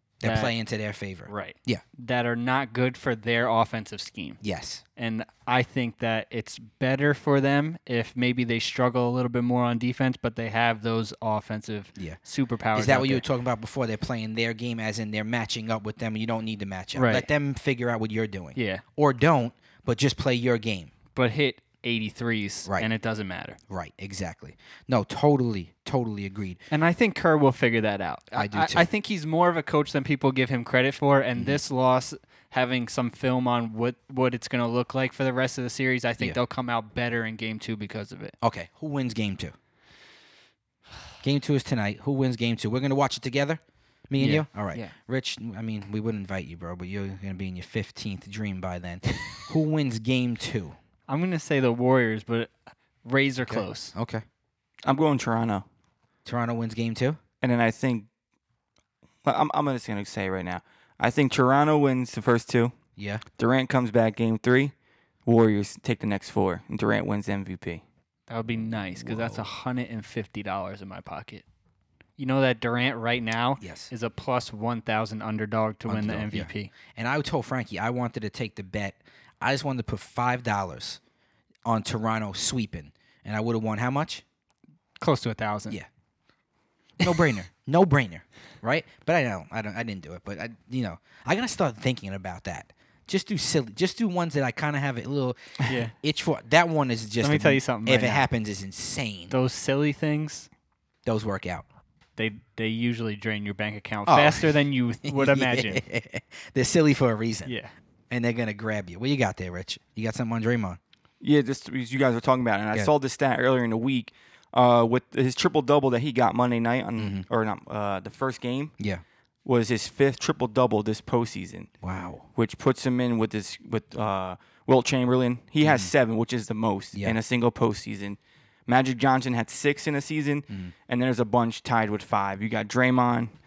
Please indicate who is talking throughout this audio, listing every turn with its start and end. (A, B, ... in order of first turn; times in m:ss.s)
0:00.2-0:01.8 A
0:00.2-0:00.5 B
0:01.3-0:04.4 B
0:04.4-0:04.8 A
0:05.0-0:13.2 B
0:12.8-0:20.9 A
0:16.9-0:17.3 B
0:18.6-0:18.8 B
0:21.1-0:23.6 B
0:23.7-0:26.6 A
0:26.7-0:38.4 B
0:28.3-0:28.9 A
0:38.4-0:39.5 A
0:41.2-0:50.8 A
0:44.2-0:44.9 B
0:51.1-0:52.5 B
0:53.0-0:53.9 B
0:53.5-0:54.2 A
0:54.8-0:55.6 C
0:56.2-0:57.2 A
0:57.4-0:58.1 C
0:59.2-1:02.7 C
1:03.0-1:03.2 A
1:03.4-1:04.7 C
1:05.2-1:07.8 C
1:08.3-1:11.4 B
1:08.6-1:09.5 A
1:12.2-1:16.7 B
1:13.6-1:13.9 A
1:15.9-1:21.0 A
1:21.6-1:24.2 A
1:25.0-1:25.8 B
1:27.0-1:39.4 A
1:35.7-1:35.9 B
1:37.2-1:38.2 B
1:39.3-1:40.5 B
1:41.0-1:41.6 A
1:42.2-1:45.8 B
1:44.1-1:47.5 A
1:47.4-1:47.7 B
1:48.1-1:50.8 A
1:51.2-1:58.7 C
1:57.0-1:57.2 A
1:59.4-2:01.7 C
2:01.8-2:02.2 A
2:02.3-2:13.3 C
2:05.6-2:05.9 A